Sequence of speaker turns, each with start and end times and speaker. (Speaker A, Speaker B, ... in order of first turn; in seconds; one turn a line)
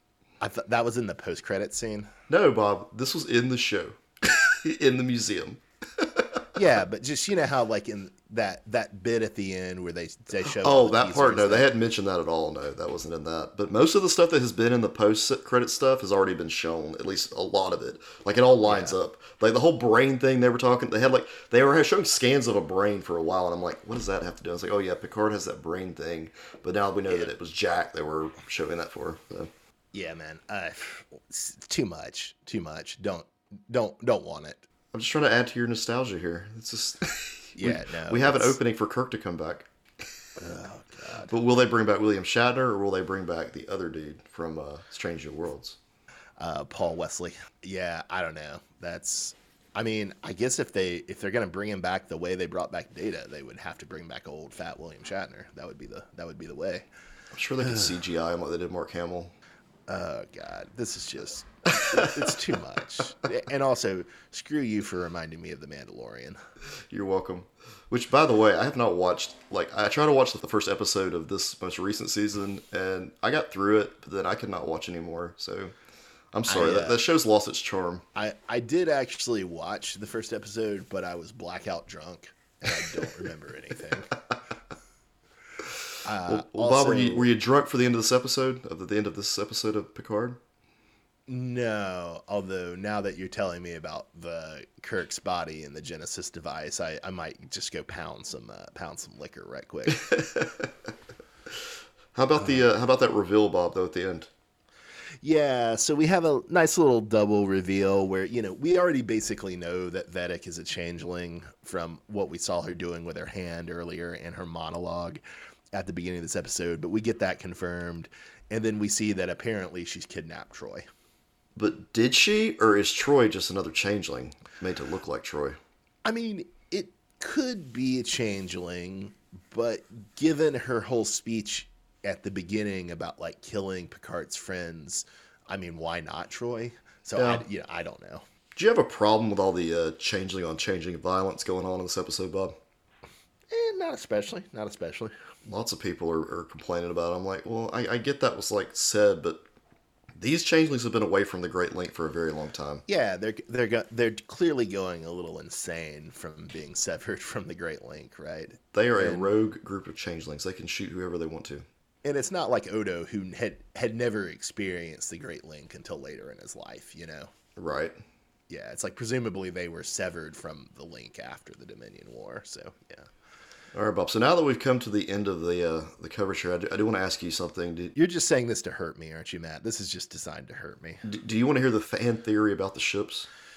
Speaker A: 0.4-2.1
Speaker B: 2.3-6.5
Speaker A: 6.5-11.7
Speaker B: 10.4-29.5
Speaker A: 18.7-19.0
Speaker A: 29.9-34.6
Speaker B: 34.9-39.7
Speaker A: 37.6-38.6
Speaker A: 40.4-41.3
Speaker B: 41.3-45.8
Speaker A: 46.4-56.9
Speaker B: 57.3-59.3
Speaker A: 59.9-66.4
Speaker B: 66.9-75.8
Speaker B: 76.3-78.0
Speaker A: 76.5-77.0
Speaker A: 78.2-84.2
Speaker A: 86.0-87.3
Speaker B: 86.2-90.4
Speaker A: 91.3-100.0
Speaker B: 99.9-100.7
Speaker B: 102.1-104.3
Speaker A: 105.2-115.2
Speaker A: 115.7-120.8
Speaker B: 121.5-125.6
Speaker A: 126.0-138.2
Speaker B: 137.2-137.4
Speaker B: 138.6-142.6
Speaker A: 143.5-145.2
Speaker B: 145.4-149.4
Speaker B: 150.2-152.8
Speaker A: 152.9-159.3
Speaker B: 158.7-161.7
Speaker A: 162.0-167.3
Speaker B: 167.6-168.0
Speaker A: 168.5-173.1
Speaker B: 173.7-177.9
Speaker A: 177.9-181.0
Speaker B: 181.0-183.3